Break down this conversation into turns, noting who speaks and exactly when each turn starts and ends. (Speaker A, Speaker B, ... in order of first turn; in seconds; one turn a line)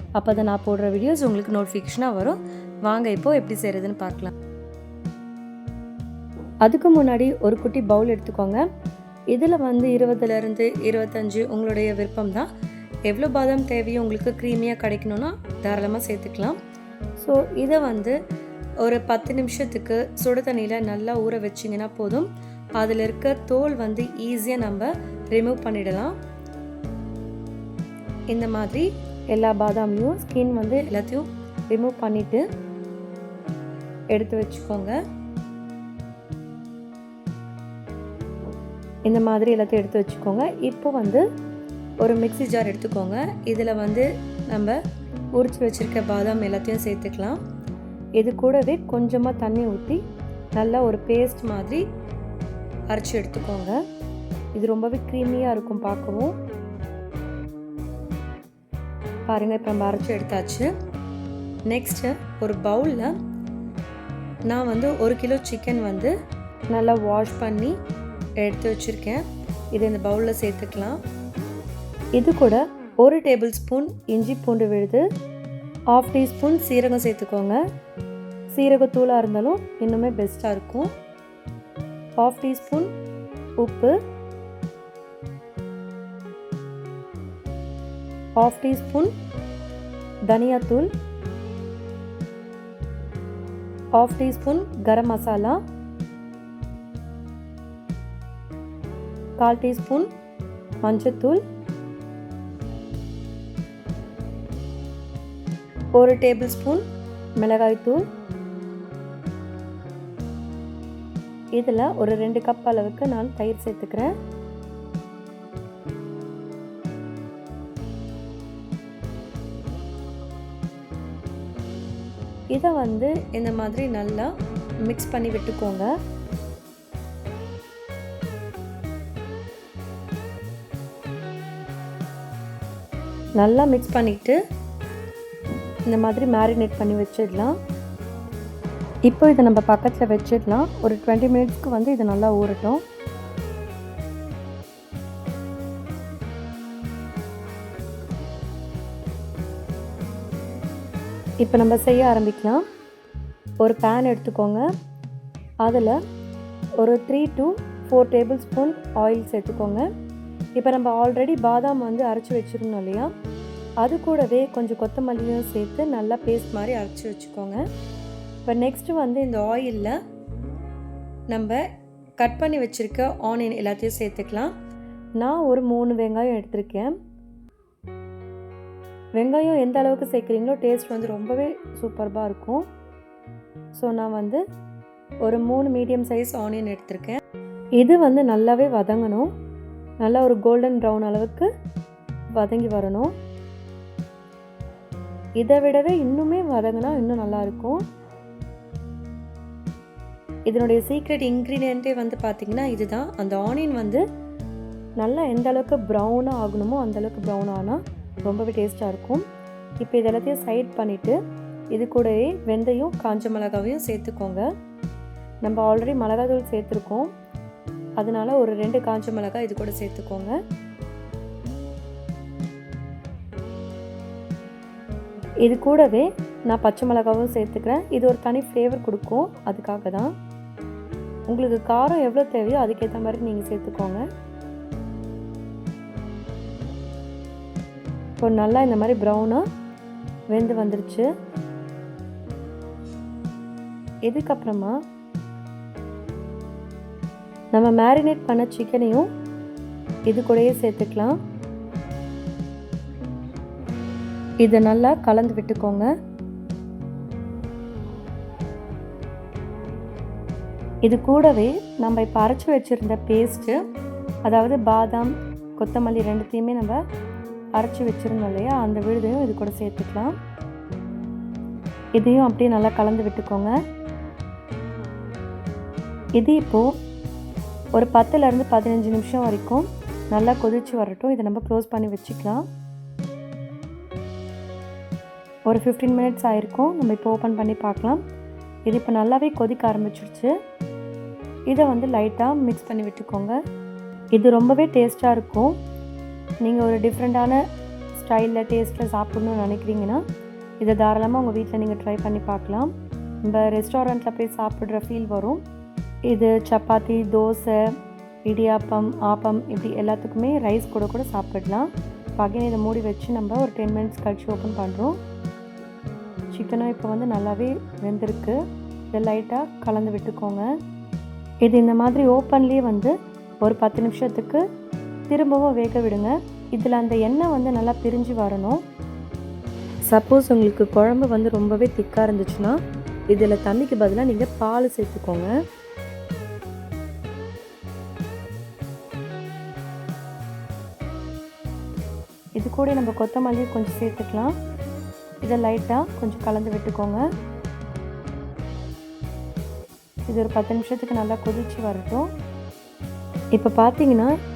Speaker A: 0.2-4.3
Speaker A: 6.6-8.6
Speaker A: 9.3-12.5
Speaker A: 13.1-16.6
Speaker A: 17.2-18.1
Speaker A: 18.8-26.1
Speaker A: 28.3-32.4
Speaker A: 34.1-35.0
Speaker A: 39.1-41.2
Speaker A: 42.0-44.8
Speaker A: 45.4-47.4
Speaker A: 48.2-50.0
Speaker A: 50.6-51.8
Speaker A: 52.9-53.8
Speaker A: 54.5-56.3
Speaker A: 59.3-60.7
Speaker A: 61.7-63.1
Speaker A: 64.5-66.1
Speaker A: 66.7-67.7
Speaker A: 68.4-69.2
Speaker A: 69.7-71.0
Speaker A: 72.2-75.0
Speaker A: 75.9-77.6
Speaker A: 78.5-80.9
Speaker A: 82.2-82.9
Speaker A: 83.6-83.9
Speaker A: 88.4-89.1
Speaker A: 90.3-90.9
Speaker A: 94.0-95.6
Speaker A: 99.4-100.1
Speaker A: 100.8-101.4
Speaker A: 106.0-106.8
Speaker A: 107.4-108.0
Speaker A: 111.5-114.1
Speaker A: 122.5-124.3
Speaker A: 124.8-125.9
Speaker A: 133.4-134.4
Speaker A: 135.9-137.6
Speaker A: 139.1-142.8
Speaker A: 151.4-152.6
Speaker A: 153.6-154.6
Speaker A: 155.6-156.0
Speaker A: 156.8-159.8
Speaker A: 160.6-163.1
Speaker A: 163.8-167.6
Speaker A: 168.5-169.9
Speaker A: 171.3-171.6
Speaker A: 172.2-174.5
Speaker A: 175.2-176.9
Speaker A: 179.2-182.7
Speaker A: 183.8-184.4
Speaker A: 185.2-187.2
Speaker A: 187.8-189.3
Speaker A: 190.0-191.5
Speaker A: 192.4-193.1
Speaker A: 195.4-197.8
Speaker A: 200.5-204.0
Speaker A: 205.0-209.2
Speaker A: 209.8-211.2
Speaker A: 211.7-214.5
Speaker A: 215.4-217.1
Speaker A: 218.0-220.4
Speaker A: 225.4-230.1
Speaker A: 231.3-234.0
Speaker A: 238.2-239.4
Speaker A: 240.3-241.1
Speaker A: 244.1-244.8
Speaker A: 247.5-249.1
Speaker A: 250.1-251.2
Speaker A: 254.4-255.9
Speaker A: 260.9-263.6
Speaker A: 264.2-266.8
Speaker A: 267.6-270.1
Speaker A: 272.0-273.5
Speaker A: 276.2-276.7
Speaker A: 277.8-282.4
Speaker A: 285.5-288.0
Speaker A: 288.7-290.3
Speaker A: 291.5-293.4
Speaker A: 294.1-295.6
Speaker A: 296.4-297.4
Speaker A: 297.9-300.0
Speaker A: 300.6-302.7
Speaker A: 303.3-305.4
Speaker A: 306.1-307.6
Speaker A: 308.3-315.0
Speaker A: 316.3-318.4
Speaker A: 318.9-320.5
Speaker A: 321.4-324.4
Speaker A: 325.1-328.6
Speaker A: 329.9-332.6
Speaker A: 333.1-335.3
Speaker A: 342.4-344.3
Speaker A: 345.2-347.0
Speaker A: 350.1-352.1
Speaker A: 353.4-354.1